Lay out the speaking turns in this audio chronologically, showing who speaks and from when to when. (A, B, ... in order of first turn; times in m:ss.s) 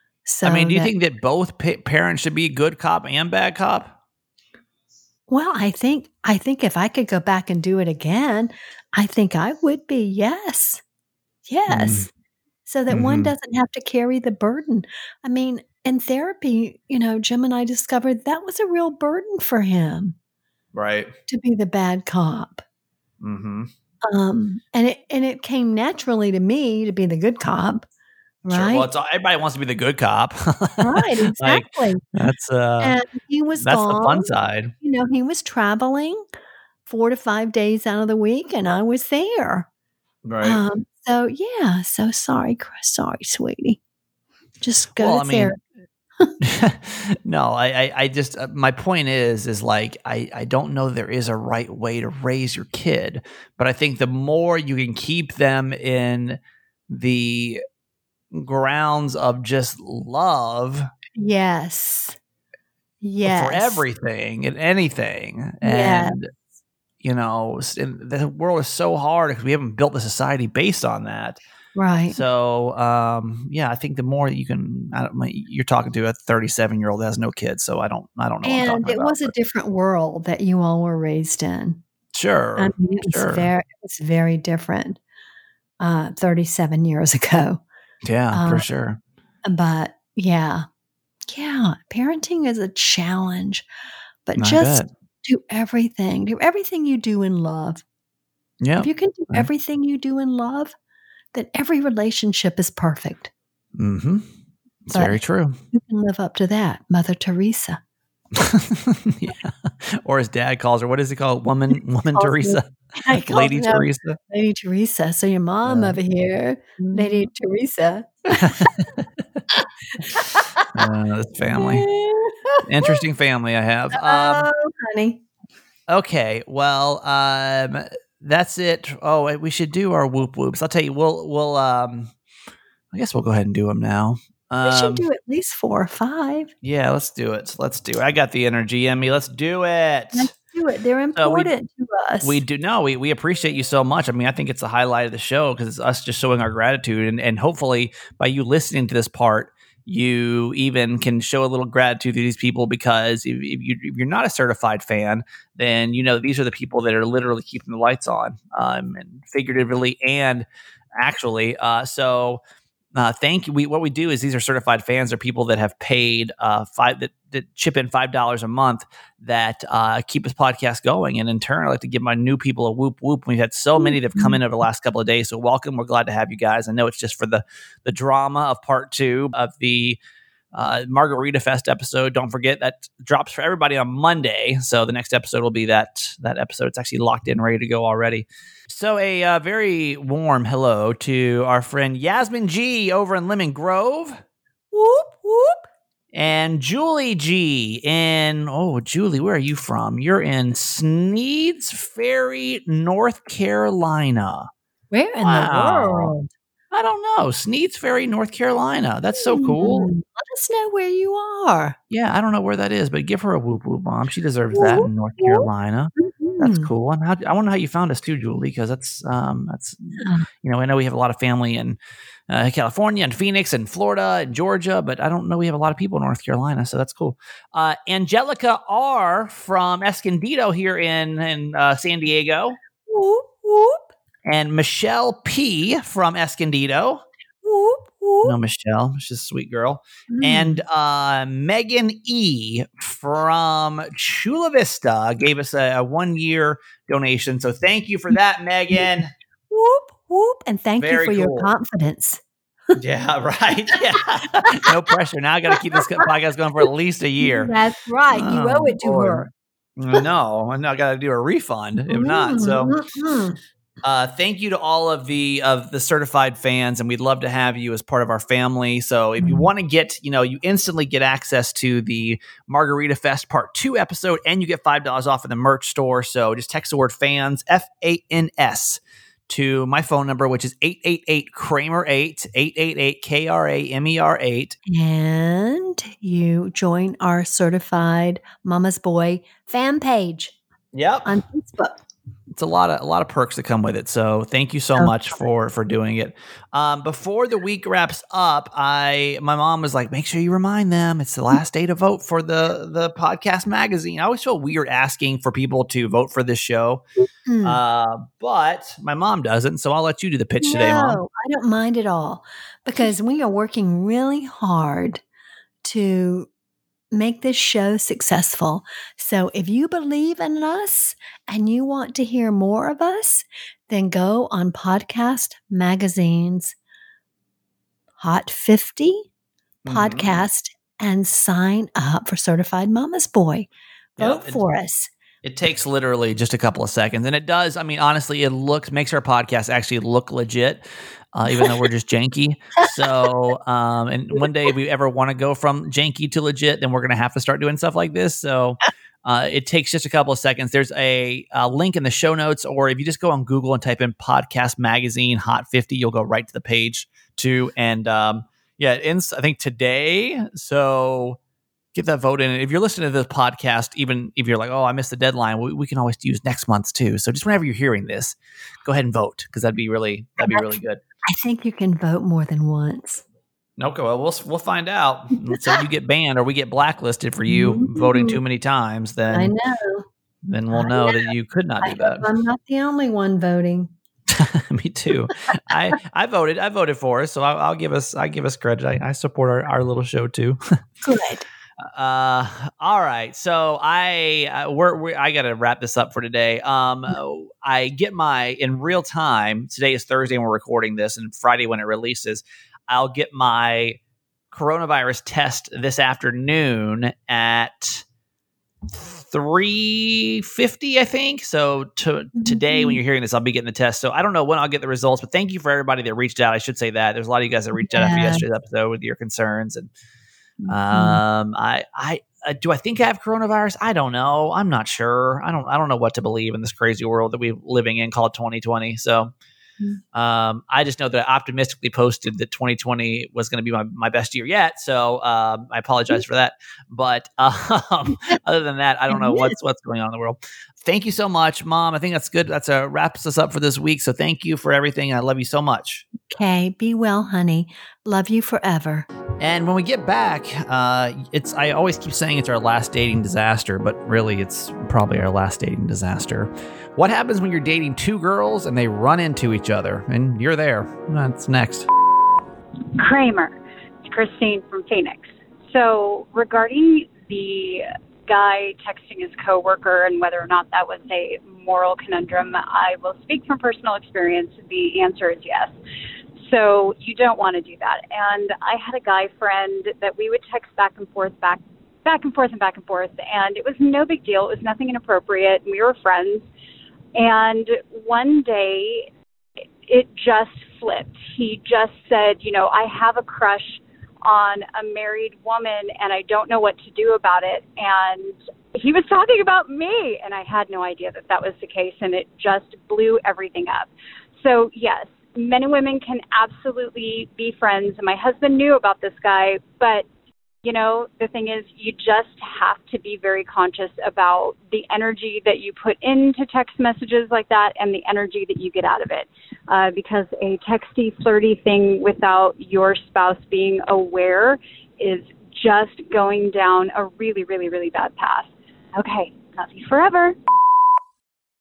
0:00.3-0:00.9 A
0:00.4-0:04.0 B
0:05.3-0:10.8 A
0:11.5-0:12.1 A
0:11.7-0:12.1 B
0:12.6-0:20.2 A
0:12.9-0:13.3 B
0:20.7-0:21.1 B
0:21.3-0:22.6 A
0:23.2-0:23.7 B
0:24.0-0:27.8 A
0:28.4-0:28.9 A
0:28.5-0:33.0 B
0:30.8-0:32.0 A
0:32.8-0:36.2 A
0:33.6-0:34.7 B
0:36.9-0:39.7 A
0:40.2-0:40.6 B
0:40.4-0:43.8 A
0:44.6-0:45.6 A
0:44.9-0:45.6 B
0:46.4-0:57.6 B
0:58.3-1:00.9 B
1:01.2-1:02.2 A
1:03.0-1:03.8 A
1:03.2-1:06.3 B
1:05.6-1:06.2 A
1:07.0-1:11.4 B
1:11.8-1:12.2 A
1:12.1-1:19.3 B
1:18.4-1:21.8 A
1:22.1-1:23.5 B
1:22.6-1:25.0 A
1:25.8-1:27.6 A
1:28.0-1:29.0 B
1:28.3-1:28.6 A
1:29.4-1:30.6 A
1:31.3-1:33.6 A
1:34.3-1:37.8 A
1:34.4-1:34.9 B
1:38.6-1:39.5 B
1:38.8-1:40.7 A
1:41.3-1:43.3 A
1:43.8-1:44.3 B
1:44.9-1:45.6 B
1:45.7-1:47.8 A
1:48.4-1:54.2 B
1:52.1-1:58.7 A
1:55.6-1:56.0 B
1:56.8-1:57.2 B
1:58.3-1:59.0 B
2:00.1-2:00.6 A
2:00.7-2:01.9 B
2:01.6-2:03.0 A
2:02.6-2:04.5 B
2:03.9-2:05.2 A
2:05.9-2:12.1 B
2:12.9-2:15.0 B
2:14.6-2:16.5 A
2:16.6-2:20.3 B
2:20.1-2:22.4 A
2:21.1-2:21.5 B
2:22.2-2:40.5 B
2:41.0-2:42.4 B
2:43.0-3:00.0 B
2:53.8-2:54.4 A
3:00.5-3:14.2 B
3:14.7-3:15.6 A
3:16.1-3:24.5 B
3:24.9-3:26.3 A
3:25.2-3:26.1 B
3:26.7-3:29.9 B
3:29.3-3:31.8 A
3:31.9-3:52.6 B
3:34.5-3:36.7 A
3:52.9-3:53.8 A
3:54.3-3:57.0 B
3:57.4-3:58.4 A
3:58.2-4:09.1 B
4:00.1-4:00.6 A
4:09.5-4:12.2 A
4:10.8-4:11.5 B
4:12.8-4:17.5 B
4:17.2-4:19.3 A
4:18.1-4:22.8 B
4:21.9-4:23.4 A
4:23.8-4:44.6 B
4:29.2-4:29.5 A
4:44.6-4:50.4 A
4:50.7-4:51.2 B
4:51.0-4:51.8 A
4:52.3-5:06.8 B
5:07.3-5:07.6 A
5:07.4-5:11.0 B
5:10.4-5:15.0 A
5:15.6-5:16.3 A
5:16.9-5:26.6 A
5:28.0-5:29.1 A
5:29.6-5:30.2 B
5:29.7-5:33.5 A
5:34.0-5:34.4 B
5:34.0-5:34.9 A
5:35.2-6:01.2 B
6:01.7-6:10.8 B
6:10.2-6:10.5 A
6:11.1-6:13.0 A
6:13.6-6:19.3 B
6:17.3-6:18.2 A
6:19.1-6:19.9 A
6:20.2-6:22.1 B
6:20.5-6:21.1 A
6:21.6-6:23.7 A
6:24.1-6:30.4 B
6:30.8-6:31.2 A
6:31.6-6:43.8 B
6:44.3-6:47.8 B
6:48.7-6:59.7 B
6:52.2-6:52.8 A
6:57.6-6:58.2 A
7:00.4-7:01.0 A
7:00.5-7:09.1 B
7:09.9-7:25.9 B
7:18.9-7:19.4 A
7:26.1-7:28.9 A
7:29.2-7:41.7 B
7:42.8-7:55.5 C
7:56.2-8:06.3 C
8:07.0-8:08.9 C
8:09.7-8:23.7 C
8:24.2-8:29.9 C
8:30.4-8:50.2 C